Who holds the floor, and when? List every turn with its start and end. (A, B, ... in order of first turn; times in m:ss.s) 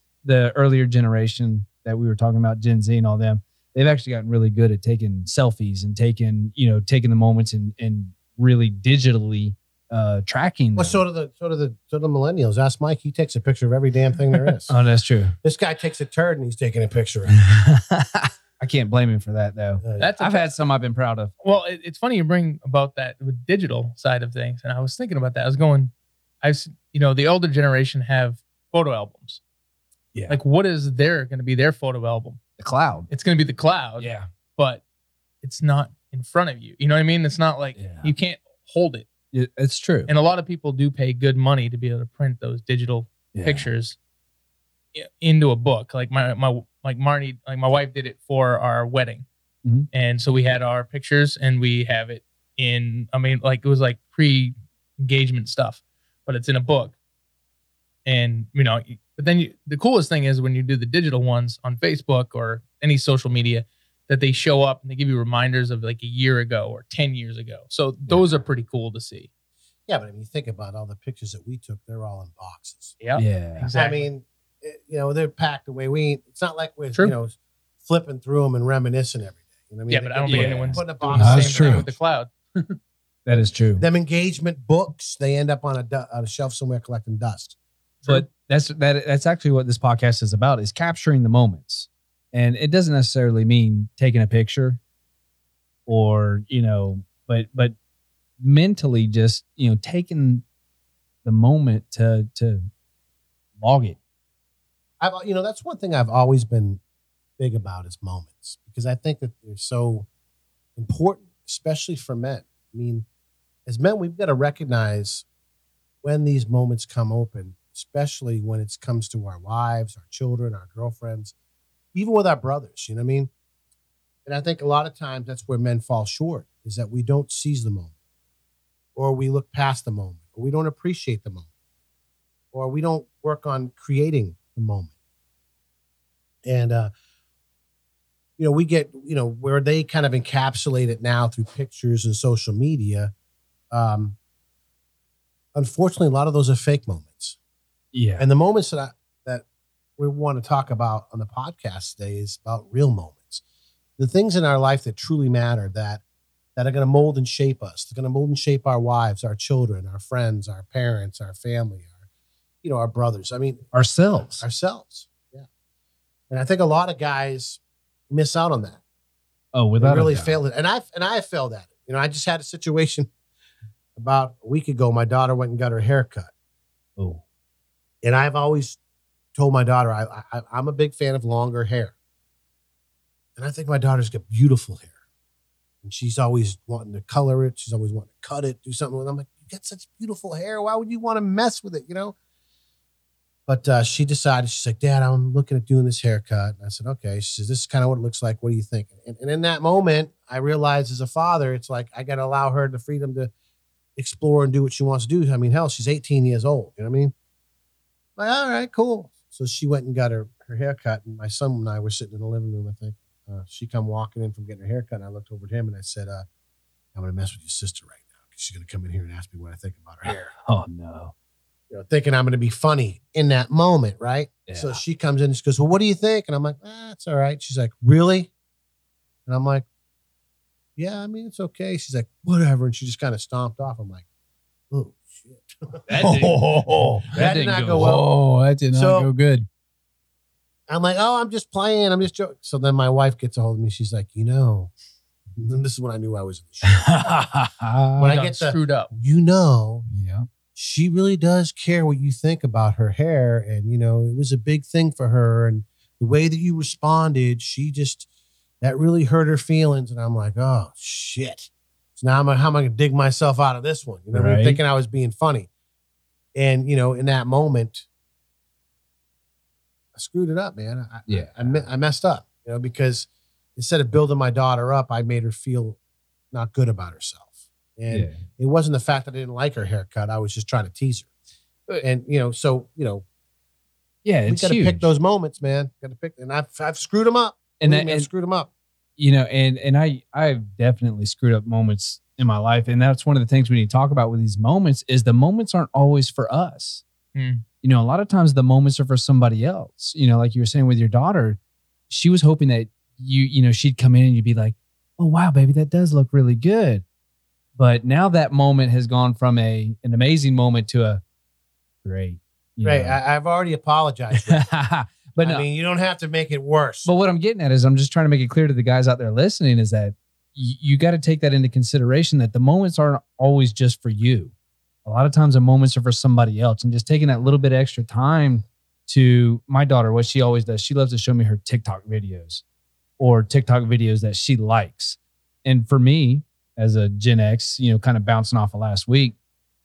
0:00.2-0:11.0 A
0:10.8-0:14.7 B
0:14.7-0:15.4 A
0:15.4-0:17.5 B
0:17.4-0:21.3 A
0:19.8-0:20.1 B
0:20.0-0:20.5 C
0:21.4-0:29.4 C
0:30.1-0:30.4 D
0:30.3-0:32.4 C
0:32.6-0:33.1 A
0:33.1-0:34.8 C
0:34.0-0:34.3 A
0:35.4-0:39.1 C
0:37.8-0:38.1 A
0:39.3-0:40.1 A
0:40.1-0:44.0 C
0:43.3-0:43.7 A
0:44.9-0:49.2 C
0:49.9-0:57.0 C
0:58.0-1:09.3 C
1:09.9-1:13.0 B
1:13.0-1:14.1 C
1:13.1-1:13.7 A
1:13.7-1:22.0 B
1:19.9-1:22.8 C
1:20.2-1:20.8 A
1:21.1-1:21.9 D
1:23.2-1:23.8 A
1:23.8-1:27.5 B
1:28.0-1:34.8 A
1:35.9-1:37.8 A
1:38.4-1:40.4 A
1:41.2-1:42.7 A
1:43.6-1:44.0 A
1:45.0-1:46.8 B
1:47.4-1:50.1 B
1:50.8-1:53.0 B
1:53.6-1:55.2 B
1:56.0-2:01.3 B
2:01.9-2:03.3 B
2:04.2-2:07.9 B
2:08.9-2:11.5 B
2:12.5-2:14.9 B
2:16.4-2:16.9 B
2:18.4-2:23.1 B
2:23.7-2:24.2 B
2:25.5-2:27.4 B
2:27.9-2:28.2 A
2:28.2-2:29.4 B
2:30.0-2:33.4 B
2:34.0-2:36.0 B
2:36.6-2:41.9 B
2:42.6-2:43.7 B
2:43.7-2:44.4 A
2:44.4-2:45.4 B
2:46.3-2:48.8 B
2:49.5-2:50.4 A
2:49.8-2:53.1 B
2:54.0-2:56.3 B
2:57.0-2:57.2 A
2:58.0-2:58.8 B
2:59.3-3:01.9 B
3:03.4-3:04.9 B
3:05.8-3:12.1 B
3:13.5-3:23.3 B
3:24.0-3:27.1 B
3:28.2-3:36.2 B
3:36.9-3:40.3 B
3:40.0-3:41.1 A
3:41.7-3:48.3 B
3:44.5-3:44.8 A
3:49.3-3:49.6 B
3:50.8-3:54.0 B
3:54.7-3:55.9 B
3:55.9-3:56.5 A
3:56.0-3:57.2 D
3:57.1-3:58.0 A
3:57.1-3:58.1 B
3:57.7-3:59.5 D
3:58.7-3:59.1 B
4:00.7-4:04.7 B
4:05.4-4:07.0 B
4:06.9-4:08.0 A
4:08.0-4:09.8 B
4:08.0-4:08.9 C
4:09.9-4:10.3 D
4:10.6-4:18.0 B
4:18.6-4:25.5 B
4:24.1-4:24.6 A
4:26.3-4:27.8 B
4:29.9-4:35.8 B
4:31.1-4:31.6 A
4:36.3-4:41.1 B
4:37.9-4:38.2 A
4:41.8-4:43.0 B
4:44.0-4:44.9 A
4:44.3-4:48.5 B
4:47.6-4:48.1 A
4:49.0-4:56.8 A
4:57.1-4:57.4 C
4:57.6-5:06.8 A
5:07.6-5:11.0 A
5:11.8-5:13.0 A
5:12.6-5:14.5 B
5:14.2-5:15.4 A
5:15.2-5:16.9 B
5:16.8-5:24.3 A
5:24.8-5:32.4 A
5:33.0-5:39.2 A